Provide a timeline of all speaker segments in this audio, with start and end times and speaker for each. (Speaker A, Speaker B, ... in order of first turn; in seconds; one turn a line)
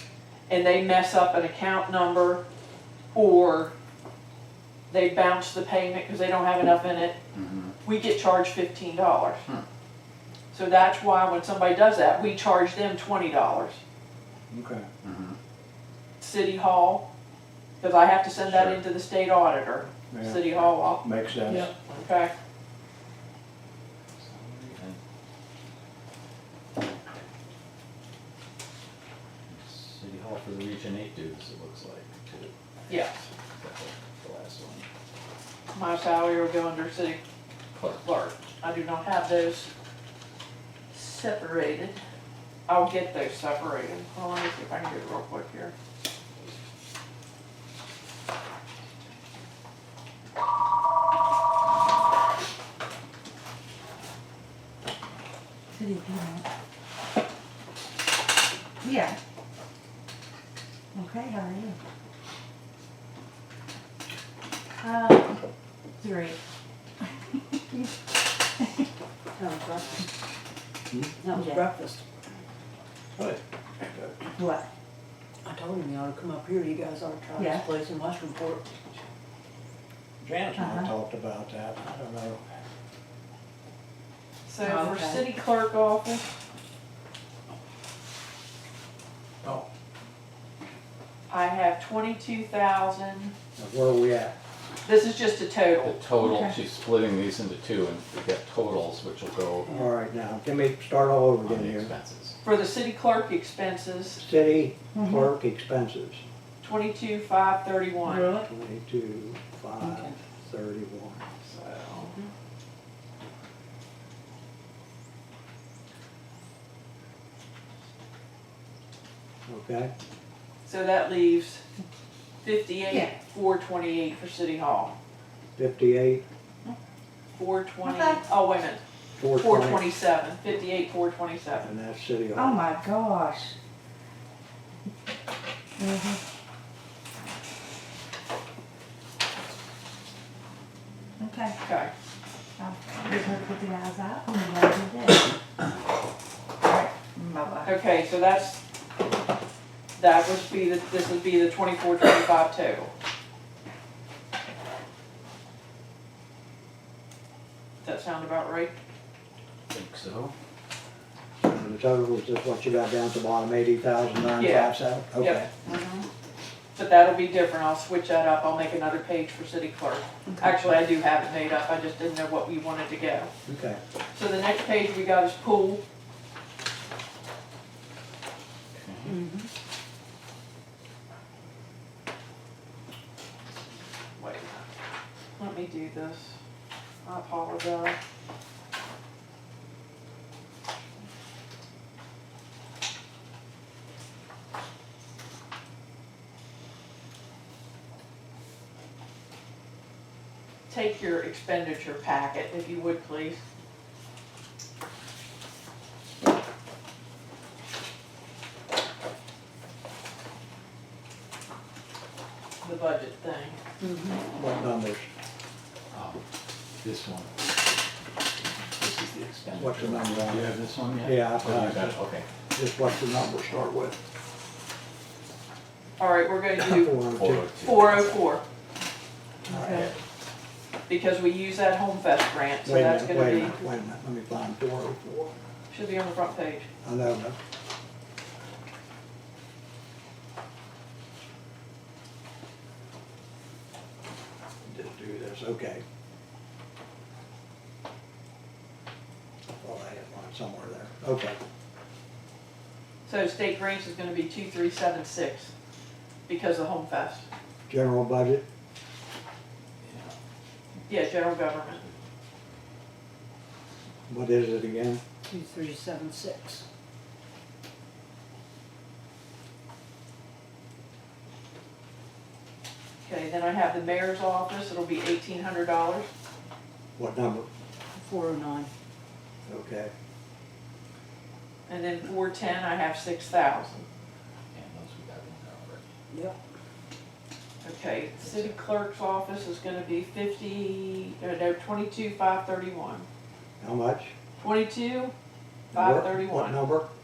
Speaker A: 0.5-2.4
Speaker A: 3.1-3.7
Speaker A: 4.9-7.2
Speaker B: 7.3-7.8
Speaker A: 7.8-9.5
Speaker A: 10.5-13.8
Speaker C: 14.5-14.9
Speaker B: 15.0-15.4
Speaker A: 16.2-17.1
Speaker A: 17.8-21.1
Speaker B: 18.4-18.8
Speaker C: 20.1-21.7
Speaker A: 21.8-22.3
Speaker B: 24.1-25.0
Speaker B: 29.5-33.0
Speaker A: 32.9-33.3
Speaker B: 33.6-34.9
Speaker A: 35.7-37.2
Speaker B: 37.8-38.1
Speaker A: 38.0-39.7
Speaker A: 40.9-42.0
Speaker A: 42.7-45.7
Speaker D: 55.7-56.5
Speaker D: 58.8-59.2
Speaker D: 60.9-61.8
Speaker D: 64.8-65.4
Speaker D: 66.0-66.4
Speaker E: 69.3-70.1
Speaker E: 71.2-72.0
Speaker D: 71.3-71.7
Speaker C: 73.2-74.2
Speaker D: 74.4-74.7
Speaker E: 75.4-79.0
Speaker D: 77.3-77.7
Speaker C: 80.2-82.4
Speaker D: 80.5-80.9
Speaker A: 84.5-86.4
Speaker D: 84.6-85.2
Speaker A: 91.3-93.3
Speaker C: 93.6-94.4
Speaker A: 94.8-96.0
Speaker B: 95.8-99.8
Speaker D: 96.2-96.5
Speaker C: 99.7-101.9
Speaker B: 101.4-102.4
Speaker A: 102.4-104.2
Speaker C: 104.2-106.2
Speaker D: 105.0-105.3
Speaker A: 106.6-108.3
Speaker E: 108.1-108.5
Speaker C: 108.4-111.2
Speaker D: 109.8-110.2
Speaker A: 111.4-112.2
Speaker C: 119.5-119.9
Speaker A: 120.7-121.6
Speaker A: 122.4-125.0
Speaker D: 122.9-123.1
Speaker C: 125.6-126.2
Speaker A: 127.3-128.8
Speaker D: 127.8-128.3
Speaker C: 129.2-129.9
Speaker A: 129.3-131.7
Speaker C: 131.6-132.7
Speaker D: 132.3-133.6
Speaker D: 135.8-136.2
Speaker D: 141.2-141.6
Speaker A: 141.6-141.9
Speaker D: 142.6-145.3
Speaker D: 146.6-147.7
Speaker A: 147.6-148.6
Speaker A: 150.0-152.9
Speaker A: 157.8-158.7
Speaker B: 159.7-160.3
Speaker C: 161.4-165.5
Speaker A: 164.4-165.5
Speaker D: 165.7-166.1
Speaker A: 166.8-173.3
Speaker C: 173.5-173.8
Speaker A: 174.1-175.8
Speaker B: 178.7-179.2
Speaker E: 179.1-179.5
Speaker A: 184.2-184.7
Speaker A: 185.4-186.4
Speaker A: 187.0-188.0
Speaker A: 200.7-203.4
Speaker A: 212.6-213.6
Speaker E: 213.8-214.2
Speaker C: 214.3-215.1
Speaker B: 215.9-216.2
Speaker B: 216.8-217.5
Speaker B: 218.7-222.3
Speaker C: 219.6-222.0
Speaker C: 222.6-224.0
Speaker A: 226.0-227.0
Speaker C: 226.6-227.5
Speaker B: 227.1-228.3
Speaker A: 227.6-228.4
Speaker C: 229.5-229.9
Speaker D: 229.5-229.8
Speaker B: 229.6-230.0
Speaker A: 230.9-233.6
Speaker C: 232.6-235.3
Speaker A: 235.7-236.7
Speaker C: 236.8-237.4
Speaker C: 244.7-245.8
Speaker C: 249.6-251.4
Speaker A: 253.1-255.5
Speaker A: 256.3-257.3
Speaker C: 257.7-258.4
Speaker B: 259.8-260.1
Speaker A: 260.9-261.8
Speaker C: 264.1-265.0
Speaker E: 265.3-266.6
Speaker A: 273.0-276.1
Speaker C: 277.0-277.5
Speaker E: 277.9-278.7
Speaker C: 279.4-279.9
Speaker A: 281.7-283.9
Speaker B: 284.5-285.9
Speaker E: 286.1-286.4
Speaker A: 287.6-293.1
Speaker C: 293.6-294.1
Speaker A: 294.4-295.1
Speaker A: 295.7-296.6
Speaker C: 295.7-296.9